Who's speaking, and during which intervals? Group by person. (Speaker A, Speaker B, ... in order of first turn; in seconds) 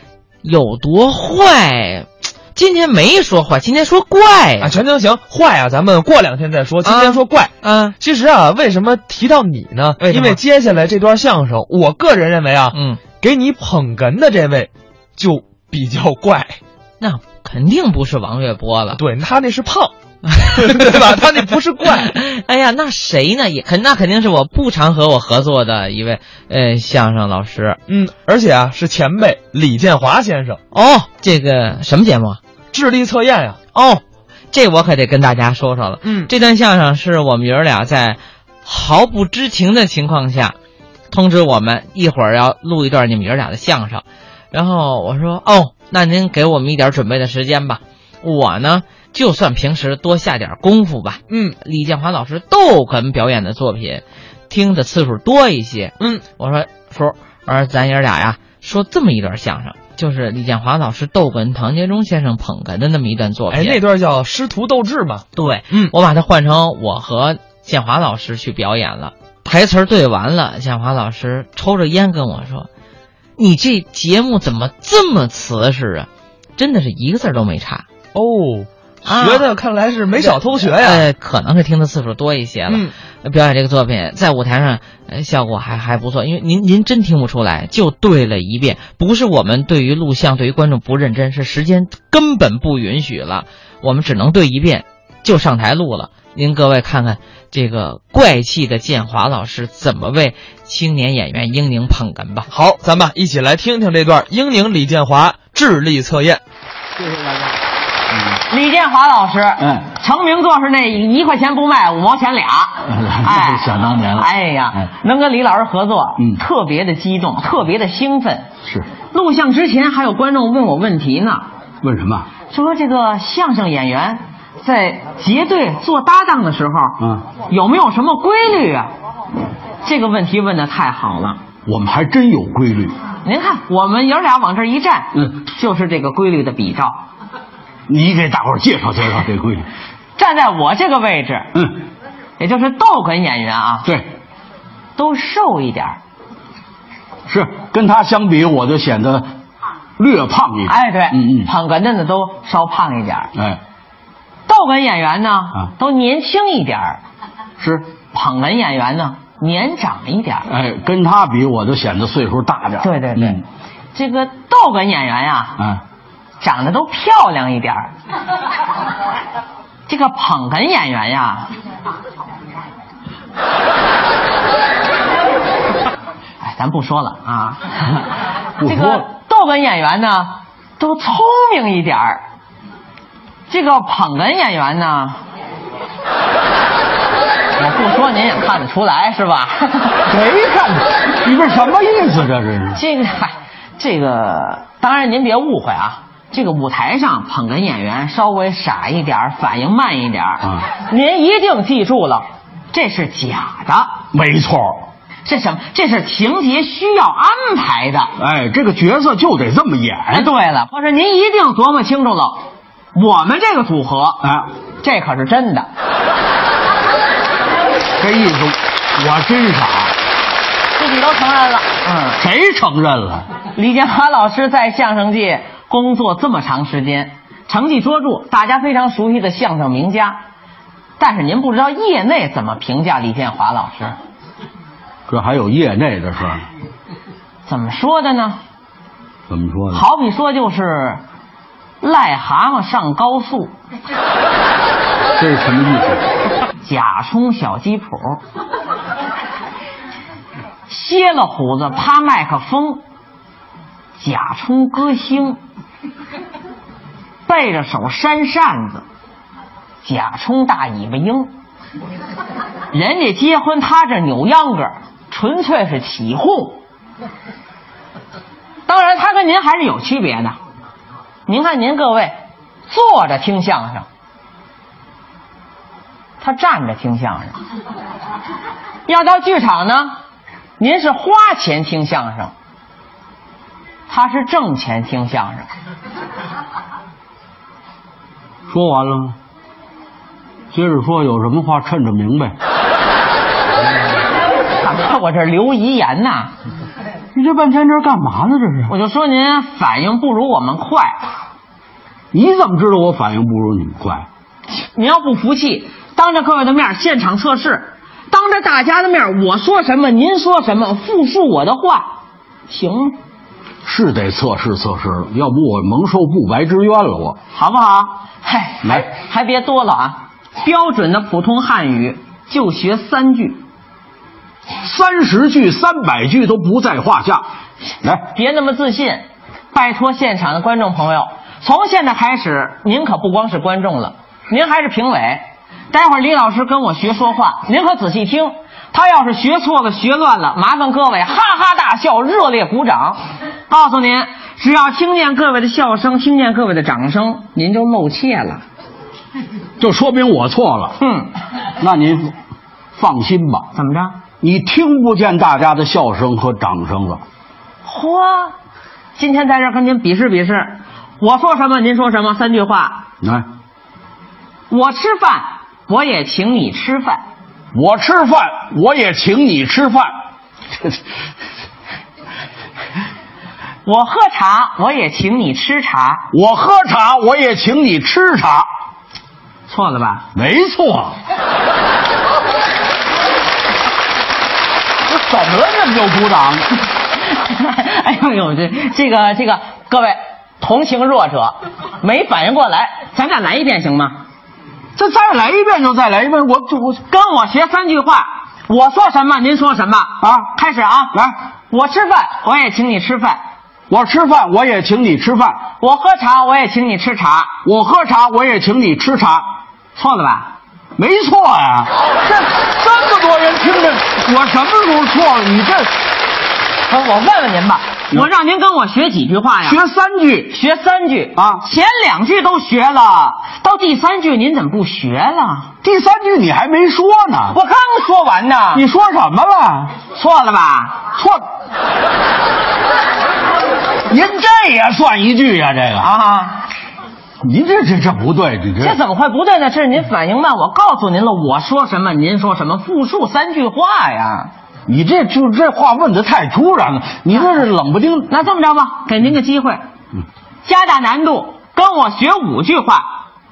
Speaker A: 0.4-4.8, 6.8-7.9, 10.0-10.4, 12.7-13.0, 17.0-19.0, 20.3-20.9, 21.9-27.8, 30.7-32.4, 33.7-40.5, 41.1-63.8, 65.3-72.7, 73.4-77.8, 79.0-79.5, 80.2-102.5
Speaker B: 4.6-16.6, 18.9-22.1, 27.9-30.6, 32.7-33.6, 36.0-36.3, 51.3-51.5, 56.0-56.2, 63.5-65.9, 78.1-81.1, 82.7-82.9, 102.5-106.4
Speaker C: 108.5-118.5, 119.1-121.5, 122.5-128.9, 129.8-131.4, 133.2-137.0, 140.2-141.5, 142.4-143.9, 145.0-146.0, 150.7-153.3, 154.5-157.0, 158.1-160.5, 162.8-163.4, 163.9-165.6, 166.4-167.9, 169.9-171.5, 176.4-178.0, 178.6-182.2, 183.5-185.2, 187.6-190.1, 192.7-203.9, 205.2-208.1, 210.1-212.4, 212.9-214.2, 214.8-215.7, 220.7-222.2, 223.5-230.2, 231.0-234.0, 237.4-238.4, 239.7-241.0, 241.8-243.5, 246.6-248.2, 250.7-252.8, 254.0-255.4, 257.2-258.8, 259.8-261.3, 262.7-266.6, 268.7-270.4, 271.2-272.1, 272.6-273.9, 276.2-277.4, 278.9-279.9, 280.6-282.3, 283.9-285.5, 294.5-296.3, 298.7-301.1, 304.5-311.9, 312.5-313.0, 317.3-323.4, 328.1-348.4, 350.8-351.1, 353.5-354.0, 357.6-358.3, 358.9-362.8, 364.5-367.0, 373.6-376.1, 379.5-380.1, 387.0-394.0, 396.9-401.0, 401.5-403.2, 405.6-407.3, 409.8-410.3, 416.7-419.6, 420.3-425.5, 427.3-428.6, 429.9-430.9, 435.8-436.5, 438.6-444.3, 448.1-449.6, 450.4-452.9
Speaker D: 109.6-109.9, 112.8-114.3, 121.8-122.3, 127.0-127.2, 131.7-132.9, 137.9-139.7, 147.3-149.3, 150.0-151.5, 153.3-153.6, 157.6-157.8, 160.4-163.4, 165.6-165.8, 178.6-179.1, 190.1-192.8, 204.1-204.8, 208.2-210.3, 214.2-214.5, 218.0-219.9, 222.2-223.3, 235.1-236.4, 239.3-239.8, 245.2-246.0, 288.5-289.1, 290.5-292.3, 297.1-298.7, 302.1-304.1, 313.6-317.2, 324.6-327.2, 349.6-350.8, 351.6-352.1, 352.8-353.5, 354.2-357.0, 363.0-363.3, 367.5-369.9, 376.1-378.5, 380.1-381.0, 384.9-386.5, 394.8-396.8, 400.0-400.3, 403.7-405.4, 407.4-409.3, 410.8-415.7, 419.4-420.3, 421.1-421.4, 425.6-427.4, 428.5-429.8, 430.9-431.2, 433.9-435.9, 437.2-438.8, 444.7-448.1